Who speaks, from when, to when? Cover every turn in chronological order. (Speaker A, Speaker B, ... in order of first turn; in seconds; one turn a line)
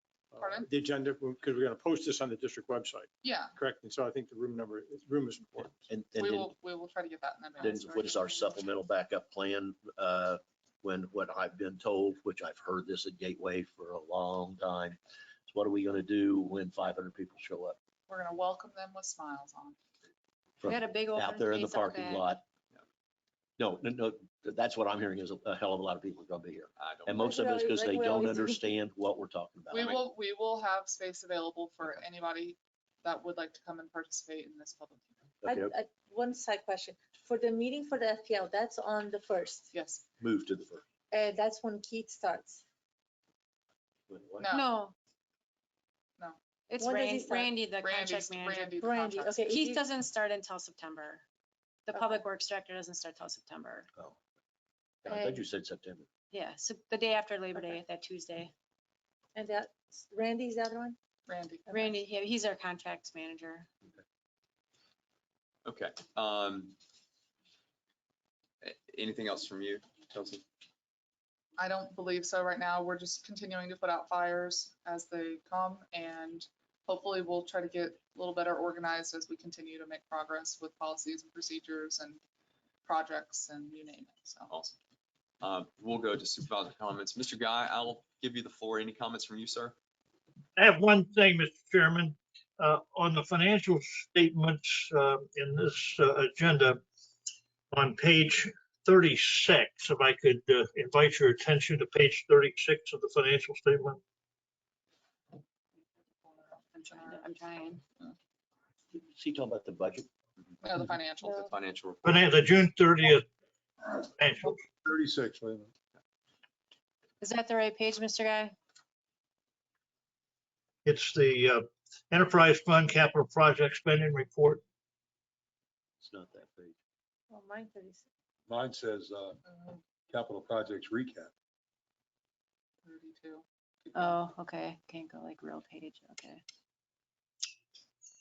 Speaker A: 0.3-5.8
Speaker B: 0.4-0.7
Speaker B: 3.2-3.6
Speaker C: 5.9-6.5
Speaker B: 6.1-8.1
Speaker D: 7.6-8.6
Speaker C: 7.6-17.8
Speaker B: 18.1-19.8
Speaker C: 20.6-22.4
Speaker D: 20.6-22.3
Speaker C: 23.6-29.9
Speaker E: 26.8-27.2
Speaker F: 27.2-28.7
Speaker B: 29.7-35.1
Speaker C: 35.4-35.7
Speaker F: 35.4-39.7
Speaker B: 39.7-40.0
Speaker C: 40.2-40.8
Speaker F: 41.1-42.6
Speaker C: 44.1-44.5
Speaker B: 44.4-44.8
Speaker D: 44.5-44.9
Speaker D: 46.7-48.7
Speaker F: 46.8-47.7
Speaker B: 47.8-49.5
Speaker F: 48.7-49.8
Speaker D: 49.4-51.2
Speaker D: 51.9-53.9
Speaker F: 51.9-52.2
Speaker C: 55.0-56.1
Speaker F: 55.1-55.4
Speaker D: 56.3-58.5
Speaker F: 59.4-61.0
Speaker B: 61.3-62.0
Speaker D: 61.7-63.7
Speaker E: 65.7-66.8
Speaker E: 68.6-70.4
Speaker B: 71.6-82.2
Speaker B: 82.9-84.5
Speaker E: 84.5-84.8
Speaker E: 85.4-89.8
Speaker G: 90.6-96.8
Speaker G: 97.7-104.0
Speaker B: 106.2-108.2
Speaker D: 106.9-107.8
Speaker C: 108.9-110.1
Speaker B: 110.6-111.5
Speaker E: 111.4-112.0
Speaker G: 112.0-113.2
Speaker G: 114.0-114.7
Speaker H: 114.8-115.7
Speaker D: 117.2-118.6
Speaker G: 120.8-124.6
Speaker C: 126.0-126.8
Speaker F: 127.3-128.1
Speaker H: 128.5-129.4
Speaker B: 129.5-129.8
Speaker H: 130.1-131.3
Speaker B: 132.8-134.2
Speaker D: 133.9-136.4